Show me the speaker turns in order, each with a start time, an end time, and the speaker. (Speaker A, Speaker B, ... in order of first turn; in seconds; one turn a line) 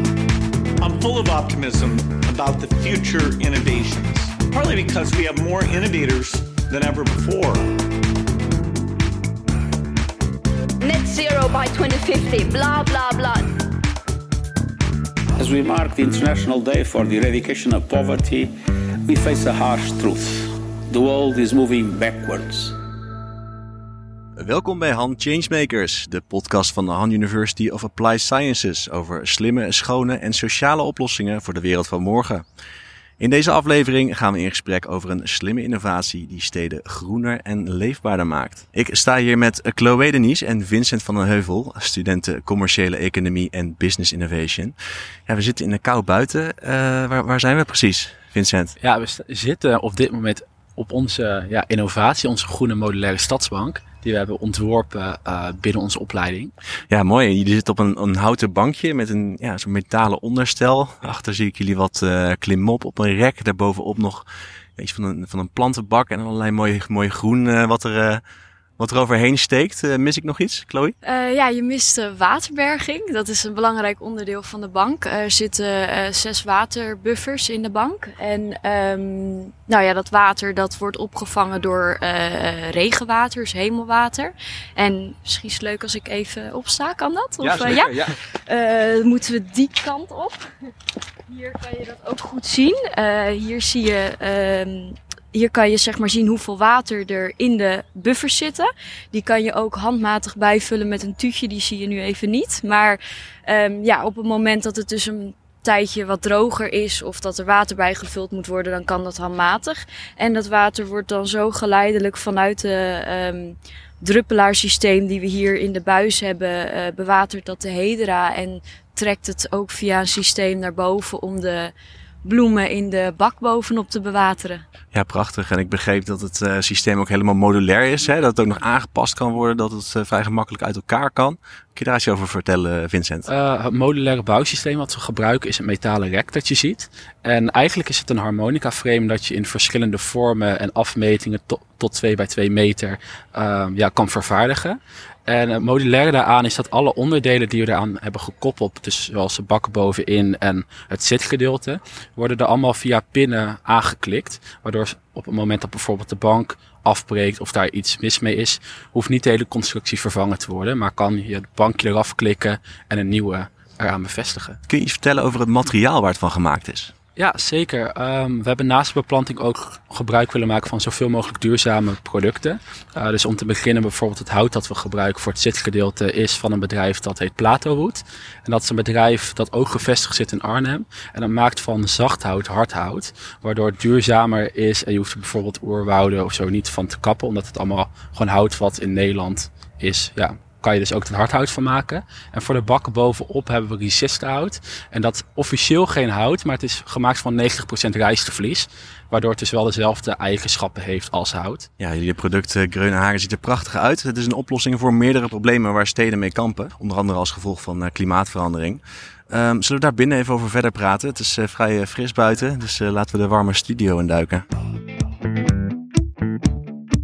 Speaker A: 0.8-7.8
Speaker B: 10.8-13.5
Speaker C: 15.4-18.5
Speaker C: 19.0-22.8
Speaker D: 24.4-32.4
Speaker D: 33.2-44.7
Speaker D: 45.3-48.8
Speaker E: 48.8-56.5
Speaker D: 56.9-64.2
Speaker D: 64.8-68.2
Speaker D: 68.8-70.9
Speaker F: 71.0-90.5
Speaker F: 91.3-121.7
Speaker F: 122.2-124.6
Speaker D: 124.9-133.3
Speaker E: 133.3-164.6
Speaker D: 164.7-166.9
Speaker E: 167.2-201.7
Speaker D: 201.8-214.4